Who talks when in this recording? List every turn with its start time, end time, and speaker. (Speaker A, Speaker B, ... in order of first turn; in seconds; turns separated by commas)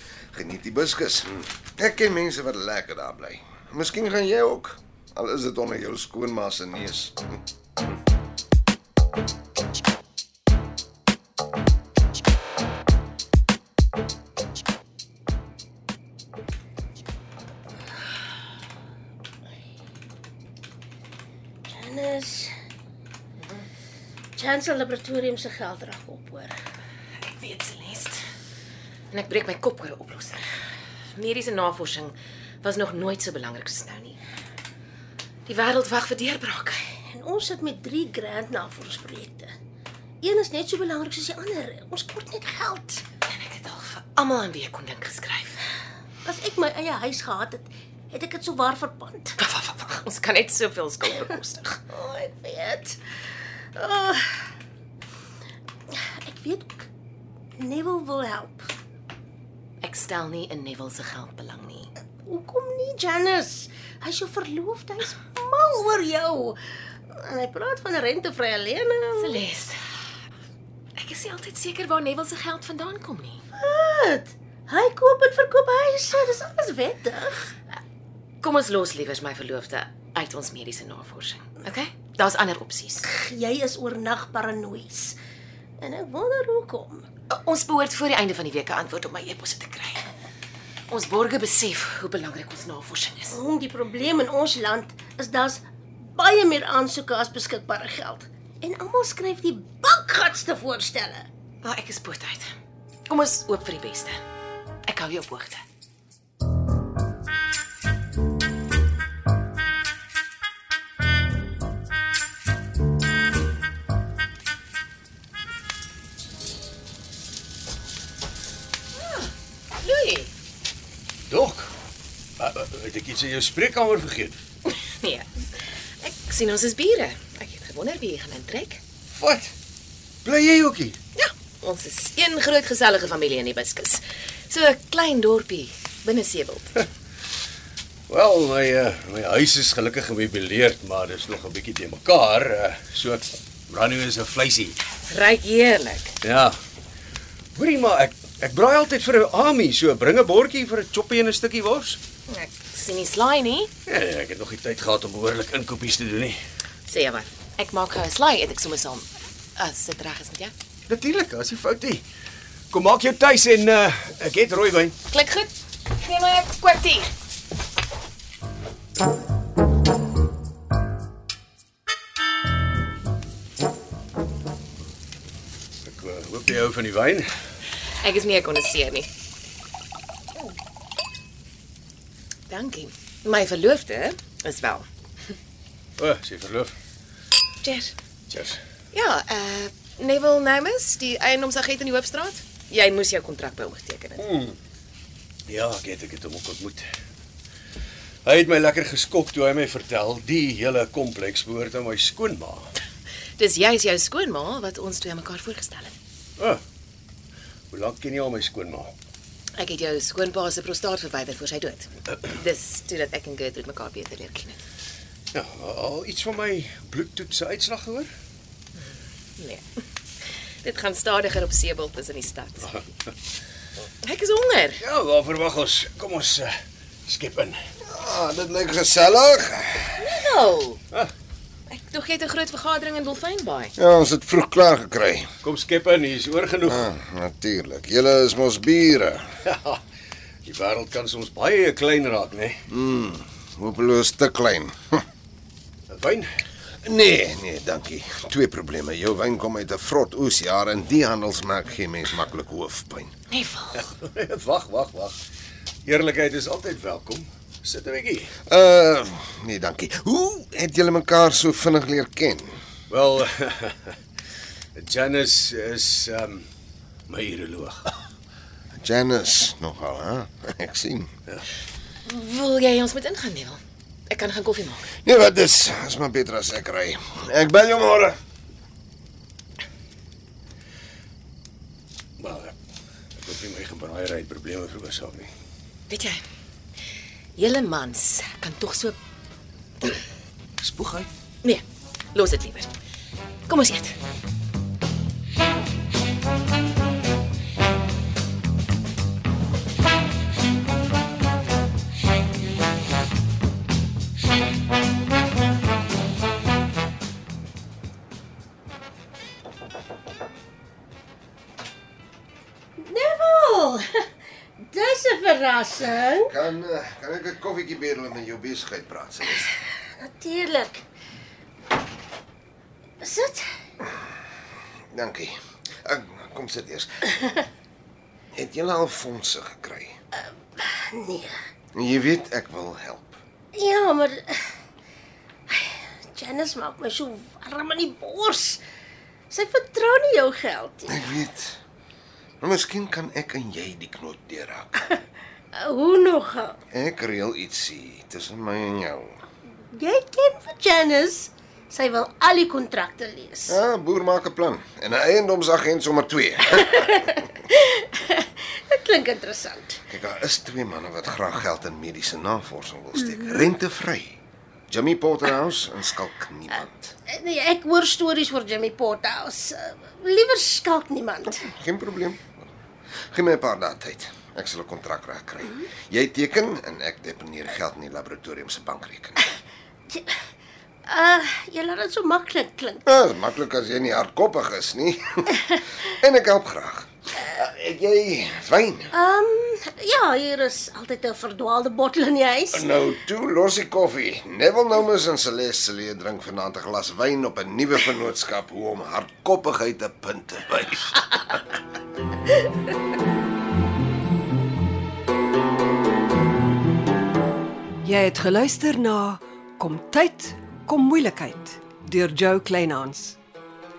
Speaker A: 0.3-7.4, Speaker B: 21.7-22.5, Speaker C: 23.4-23.6, Speaker B: 24.4-26.6, Speaker C: 27.2-28.2, Speaker C: 29.1-30.4, Speaker C: 31.1-34.2, Speaker C: 35.5-36.8, Speaker B: 37.1-39.5, Speaker B: 40.2-43.0, Speaker C: 43.2-45.6, Speaker B: 46.2-49.4, Speaker C: 49.4-51.8, Speaker B: 51.9-53.0, Speaker B: 53.7-54.5, Speaker B: 55.9-56.9, Speaker B: 57.6-58.7, Speaker C: 59.8-61.9, Speaker B: 62.2-69.4, Speaker C: 69.2-69.8, Speaker C: 71.0-73.4, Speaker B: 73.5-77.5, Speaker C: 78.4-83.1, Speaker B: 83.1-85.2, Speaker B: 85.8-87.1, Speaker C: 87.3-90.1, Speaker C: 90.9-93.3, Speaker B: 93.3-101.3, Speaker C: 101.6-102.5, Speaker C: 103.1-104.2, Speaker C: 104.8-105.6, Speaker C: 119.0-120.3, Speaker D: 121.3-121.7, Speaker D: 122.4-124.4, Speaker C: 124.7-125.3, Speaker C: 126.0-128.8, Speaker D: 129.1-129.5, Speaker D: 130.2-131.0, Speaker C: 131.2-136.8, Speaker D: 138.1-144.8, Speaker C: 145.0-146.2, Speaker D: 146.2-146.6, Speaker D: 147.6-152.0, Speaker C: 152.3-153.7, Speaker D: 153.8-156.4, Speaker C: 156.9-160.5, Speaker D: 160.9-162.0, Speaker D: 162.7-164.9, Speaker C: 165.1-167.1, Speaker D: 175.8-177.3, Speaker C: 177.9-179.1, Speaker C: 182.5-184.8, Speaker D: 186.0-186.7, Speaker C: 187.6-187.9, Speaker D: 188.3-188.6, Speaker C: 188.9-194.2, Speaker D: 194.2-194.6, Speaker D: 195.4-196.9, Speaker D: 198.2-202.7, Speaker C: 203.4-205.9, Speaker D: 207.7-208.9, Speaker C: 209.6-214.6, Speaker D: 215.3-218.1, Speaker C: 219.4-219.6, Speaker C: 220.6-222.7, Speaker C: 224.0-224.8, Speaker D: 224.8-226.6, Speaker D: 227.1-227.6, Speaker A: 227.8-230.2, Speaker C: 230.0-230.8, Speaker C: 231.7-233.7, Speaker A: 233.8-235.3, Speaker D: 235.4-236.9, Speaker A: 236.7-239.3, Speaker D: 239.4-239.8, Speaker D: 240.4-242.6, Speaker A: 242.7-245.0, Speaker D: 245.9-246.3, Speaker A: 246.8-253.2, Speaker C: 253.3-253.8, Speaker D: 253.8-255.2, Speaker D: 255.8-258.3, Speaker A: 258.5-262.6, Speaker D: 262.9-264.0, Speaker D: 264.7-266.4, Speaker D: 267.1-267.9, Speaker A: 268.8-271.1, Speaker C: 272.1-274.9, Speaker A: 275.0-278.2, Speaker D: 282.2-282.6, Speaker D: 283.2-285.3, Speaker C: 285.9-286.2, Speaker C: 287.4-289.0, Speaker D: 290.6-291.1, Speaker C: 291.4-292.7, Speaker C: 293.5-294.0, Speaker B: 312.8-314.1, Speaker B: 314.6-316.3, Speaker A: 316.2-319.5, Speaker B: 320.0-320.8, Speaker B: 323.0-323.4, Speaker A: 324.9-327.1, Speaker A: 328.3-330.0, Speaker B: 330.6-331.3, Speaker A: 331.7-333.2, Speaker B: 333.5-334.5, Speaker B: 335.5-338.6, Speaker B: 339.3-341.0, Speaker A: 340.9-341.6, Speaker A: 342.4-344.8, Speaker B: 345.5-346.6, Speaker A: 346.7-349.2, Speaker B: 349.7-353.6, Speaker A: 353.5-357.2, Speaker B: 356.6-359.8, Speaker A: 359.9-366.9, Speaker B: 367.1-371.4, Speaker A: 371.3-372.5, Speaker A: 373.1-379.2, Speaker B: 379.9-380.2, Speaker B: 380.9-382.8, Speaker A: 382.8-388.9, Speaker B: 388.9-392.7, Speaker A: 392.5-401.1, Speaker E: 407.8-413.2